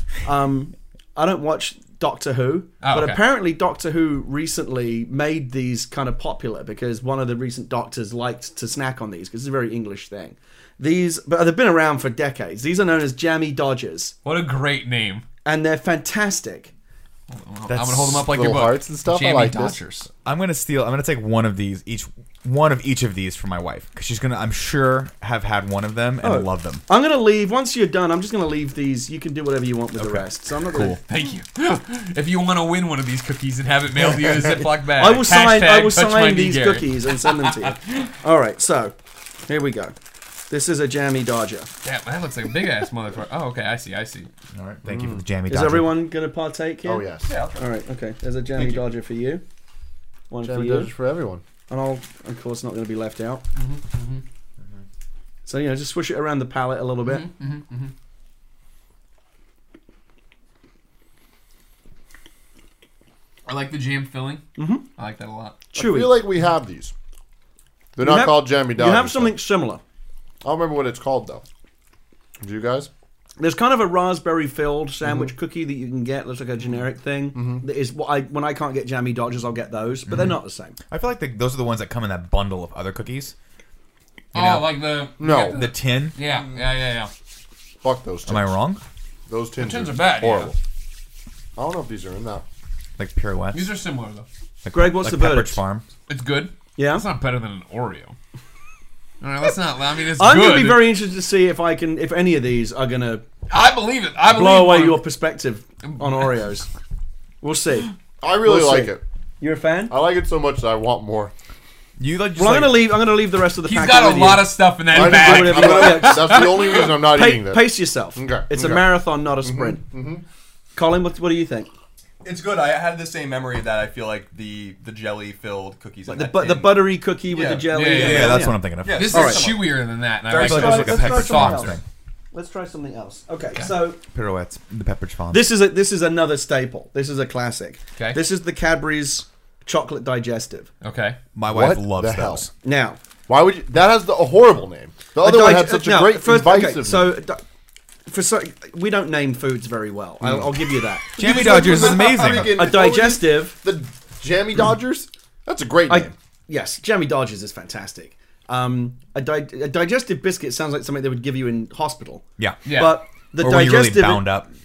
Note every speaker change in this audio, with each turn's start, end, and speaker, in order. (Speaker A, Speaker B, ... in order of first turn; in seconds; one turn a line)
Speaker A: 0.2-14.1
Speaker B: 2.8-3.2
Speaker B: 14.2-15.2
Speaker A: 15.4-16.7
Speaker B: 17.3-20.1
Speaker C: 17.9-19.8
Speaker D: 20.2-26.9
Speaker A: 26.2-31.0
Speaker D: 30.0-31.0
Speaker B: 30.8-38.1
Speaker A: 34.9-38.9
Speaker A: 39.5-39.9
Speaker A: 40.5-41.7
Speaker B: 41.8-44.3
Speaker D: 44.5-46.0
Speaker C: 44.9-45.2
Speaker A: 45.5-49.4
Speaker C: 46.8-47.4
Speaker E: 47.3-47.6
Speaker A: 50.3-50.9
Speaker C: 50.4-51.4
Speaker A: 51.7-53.4
Speaker B: 53.5-54.2
Speaker A: 55.5-57.3
Speaker B: 57.0-57.9
Speaker B: 63.5-65.6
Speaker A: 64.6-64.8
Speaker C: 65.7-66.9
Speaker A: 65.7-66.2
Speaker C: 68.0-69.3
Speaker A: 68.0-69.8
Speaker C: 70.4-71.4
Speaker C: 72.4-72.9
Speaker A: 73.4-80.8
Speaker C: 75.0-75.3
Speaker C: 77.3-77.6
Speaker D: 80.1-80.4
Speaker D: 80.9-83.3
Speaker B: 84.3-87.1
Speaker D: 84.3-86.2
Speaker C: 85.2-85.6
Speaker C: 87.8-88.5
Speaker D: 88.3-88.8
Speaker C: 89.3-90.6
Speaker B: 89.6-90.5
Speaker C: 91.6-92.4
Speaker D: 93.0-93.7
Speaker B: 93.5-94.3
Speaker D: 94.6-95.9
Speaker A: 94.7-95.6
Speaker B: 96.1-98.1
Speaker A: 96.8-97.0
Speaker B: 99.2-100.9
Speaker A: 100.1-103.2
Speaker B: 103.5-105.0
Speaker A: 104.3-106.7
Speaker B: 105.8-106.3
Speaker A: 107.4-109.9
Speaker C: 108.2-109.0
Speaker C: 109.9-111.3
Speaker D: 112.0-113.0
Speaker A: 112.3-119.8
Speaker B: 113.6-116.9
Speaker C: 114.9-120.2
Speaker A: 120.7-121.7
Speaker E: 122.2-131.3
Speaker A: 126.1-128.6
Speaker B: 127.7-131.8
Speaker D: 127.8-129.1
Speaker A: 129.1-129.5
Speaker D: 130.3-131.8
Speaker A: 130.4-131.8
Speaker A: 132.3-134.0
Speaker D: 134.1-135.5
Speaker A: 135.3-140.7
Speaker B: 140.8-141.2
Speaker D: 141.3-142.5
Speaker C: 141.5-142.5
Speaker A: 142.6-143.0
Speaker C: 143.3-147.1
Speaker A: 145.2-147.4
Speaker A: 148.1-153.6
Speaker C: 150.2-150.5
Speaker D: 151.2-152.6
Speaker C: 151.2-156.1
Speaker A: 155.9-164.4
Speaker D: 162.4-162.6
Speaker B: 162.6-163.0
Speaker D: 163.4-164.5